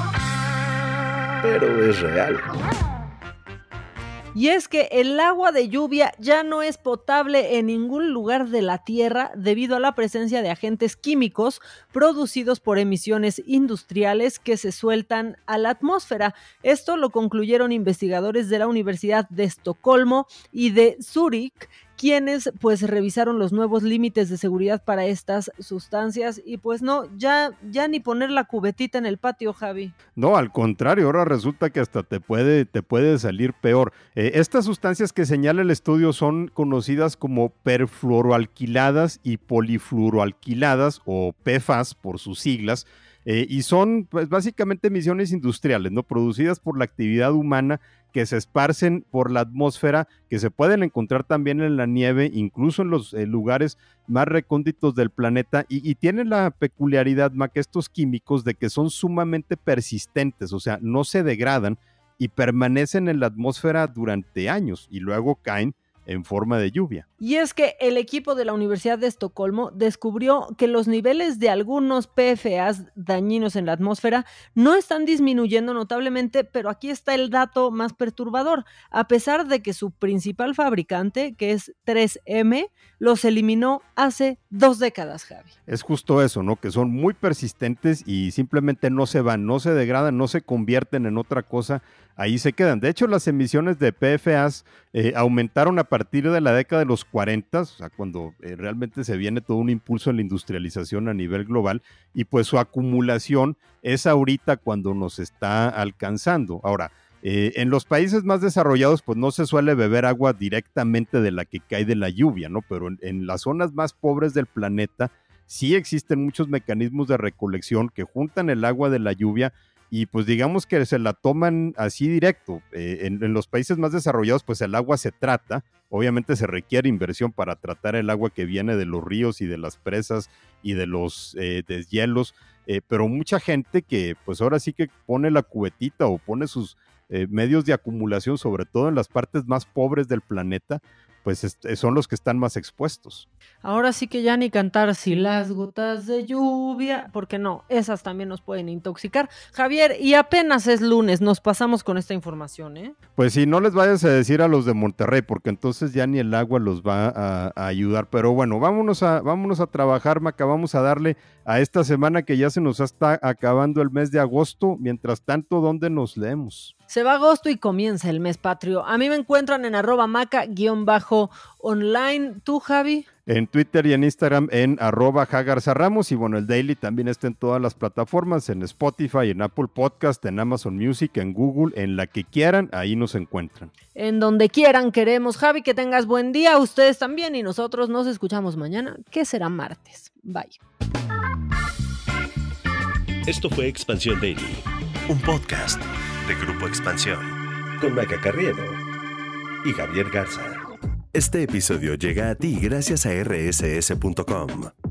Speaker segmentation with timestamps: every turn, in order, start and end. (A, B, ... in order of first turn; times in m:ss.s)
0:01.4-0:02.5 A
0:04.3-0:29.9 B
0:30.2-1:07.0 C
1:07.2-1:25.5 B
1:25.7-2:23.3 C
2:23.6-2:32.9 B
2:33.2-2:46.7 C
2:46.9-2:53.0 B
2:53.3-3:03.7 C
3:04.0-3:10.6 B
3:13.3-3:18.8 A
3:19.6-3:20.6 A
3:21.1-3:24.7 A